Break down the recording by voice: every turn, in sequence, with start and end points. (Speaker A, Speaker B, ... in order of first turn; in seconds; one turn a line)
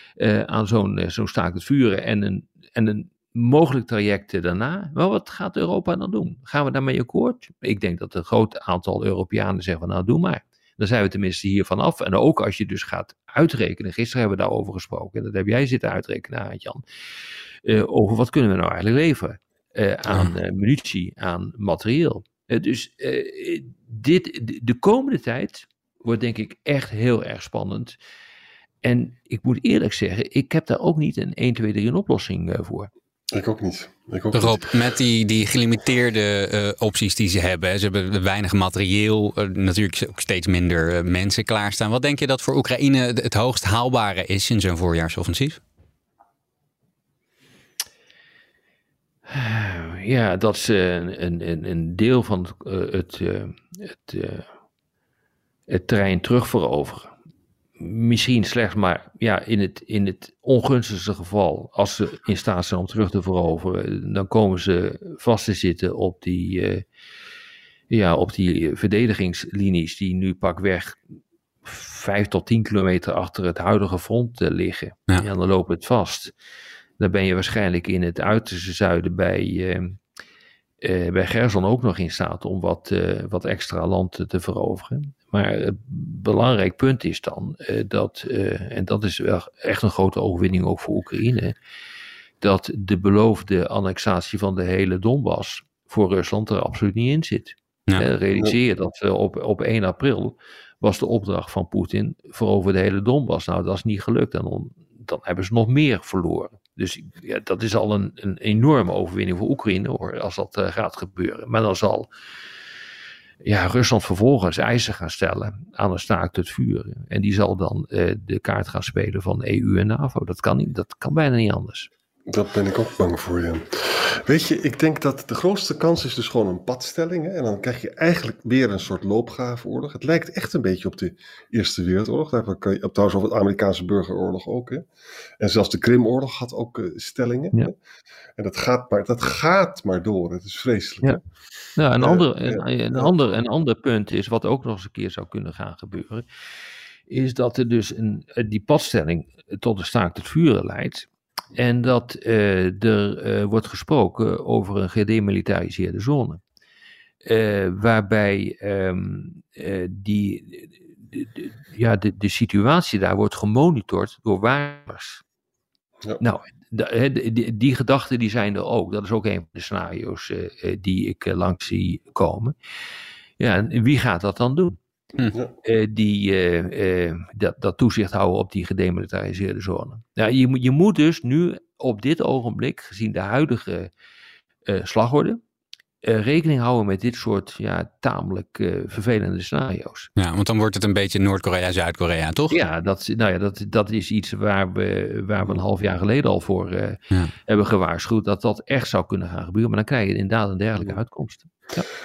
Speaker A: 0.2-16.8
Speaker A: 17.6-28.0
Speaker A: 28.8-32.9
Speaker B: 33.3-34.7
Speaker C: 34.3-45.6
Speaker A: 49.3-54.5
Speaker A: 55.7-57.1
Speaker A: 57.8-66.8
Speaker A: 67.9-71.0
Speaker A: 71.6-76.3
Speaker A: 77.0-80.0
Speaker A: 80.8-91.5
Speaker A: 92.4-112.1
Speaker A: 113.4-121.9
Speaker B: 122.3-134.8
Speaker B: 135.4-137.7
Speaker B: 138.4-141.2
Speaker A: 141.8-146.2
Speaker B: 142.0-143.1
Speaker A: 147.1-156.4
Speaker A: 157.2-165.2
Speaker A: 166.2-172.5
Speaker A: 173.4-174.8
Speaker A: 175.6-183.9
Speaker A: 184.7-185.4
Speaker A: 186.0-190.1
Speaker C: 190.2-192.5
Speaker A: 192.5-201.9